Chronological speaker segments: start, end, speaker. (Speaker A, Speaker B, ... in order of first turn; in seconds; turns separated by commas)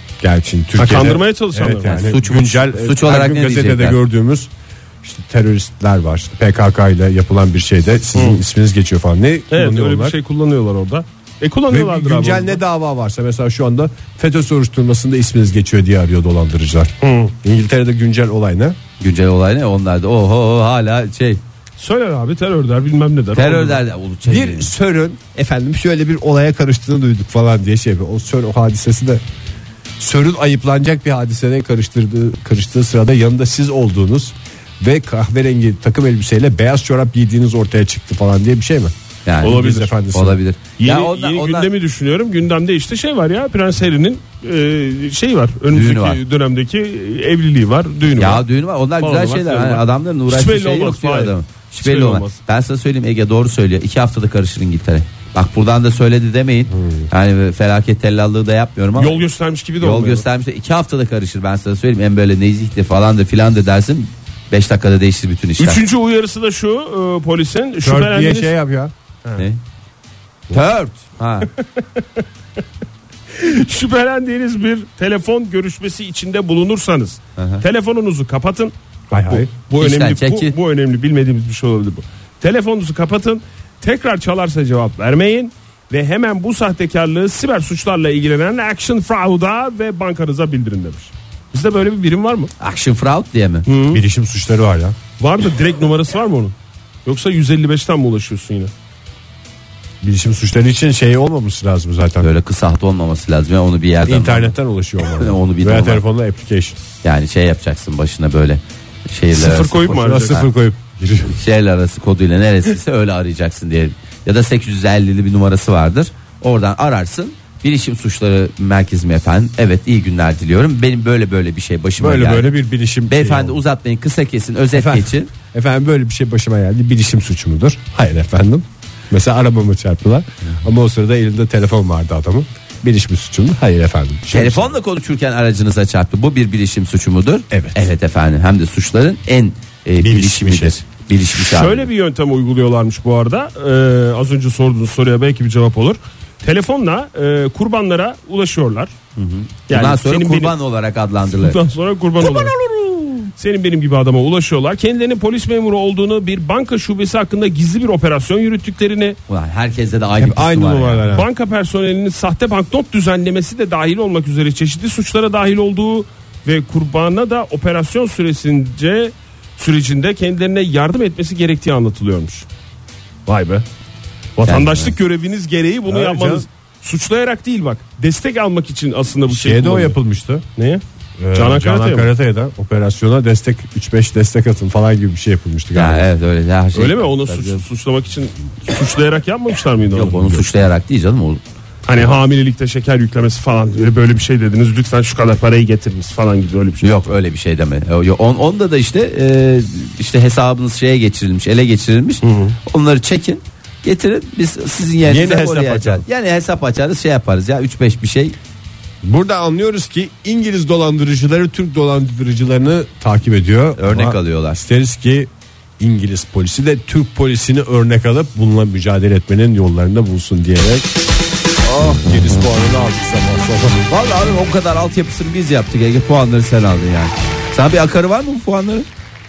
Speaker A: 0.2-4.5, Speaker B: 0.8-2.0, Speaker C: 1.8-4.0, Speaker A: 5.0-10.2, Speaker B: 8.1-8.4, Speaker B: 9.5-12.6, Speaker A: 11.7-18.8, Speaker B: 17.0-17.3, Speaker C: 19.0-21.4, Speaker B: 21.8-23.8, Speaker C: 23.3-24.7, Speaker A: 24.2-29.2, Speaker A: 30.0-40.4, Speaker C: 39.2-41.7, Speaker B: 39.4-39.9, Speaker B: 40.8-48.4, Speaker C: 45.7-46.2, Speaker C: 48.1-59.2, Speaker B: 49.0-52.4, Speaker A: 56.7-57.1, Speaker B: 58.9-60.2, Speaker C: 59.8-65.8, Speaker B: 65.6-68.5, Speaker A: 67.8-68.9, Speaker C: 70.5-71.5, Speaker B: 71.8-72.0, Speaker B: 73.3-78.7, Speaker C: 77.4-77.6, Speaker A: 79.1-79.5, Speaker B: 79.3-92.5, Speaker C: 79.8-80.5, Speaker C: 92.6-93.7, Speaker B: 93.7-94.0, Speaker A: 93.9-95.0, Speaker B: 95.2-98.7, Speaker A: 100.0-102.3, Speaker C: 102.2-104.5, Speaker A: 104.0-106.8, Speaker C: 105.2-106.0, Speaker C: 107.0-110.5, Speaker B: 109.3-110.5, Speaker A: 109.8-111.4, Speaker C: 111.3-122.5, Speaker A: 122.0-123.6, Speaker C: 123.1-125.3, Speaker A: 124.7-134.7, Speaker C: 134.3-141.9, Speaker A: 137.5-137.9, Speaker A: 140.0-140.8, Speaker B: 141.3-148.9, Speaker C: 149.2-151.6, Speaker B: 149.7-150.5, Speaker B: 151.3-159.2, Speaker C: 159.3-161.0, Speaker A: 160.2-161.3, Speaker B: 161.1-172.5, Speaker B: 173.3-173.6, Speaker B: 174.4-180.0, Speaker C: 174.4-174.9, Speaker A: 175.9-176.4, Speaker A: 179.3-180.4, Speaker B: 180.6-180.8, Speaker A: 181.2-186.1, Speaker B: 181.3-182.1, Speaker C: 185.7-187.6, Speaker B: 186.7-190.5, Speaker C: 189.9-191.4, Speaker B: 191.8-197.1, Speaker C: 196.8-208.3, Speaker B: 202.2-202.6, Speaker A: 205.0-206.0, Speaker A: 209.0-220.9, Speaker C: 213.8-214.6, Speaker A: 221.7-223.8, Speaker C: 223.9-228.9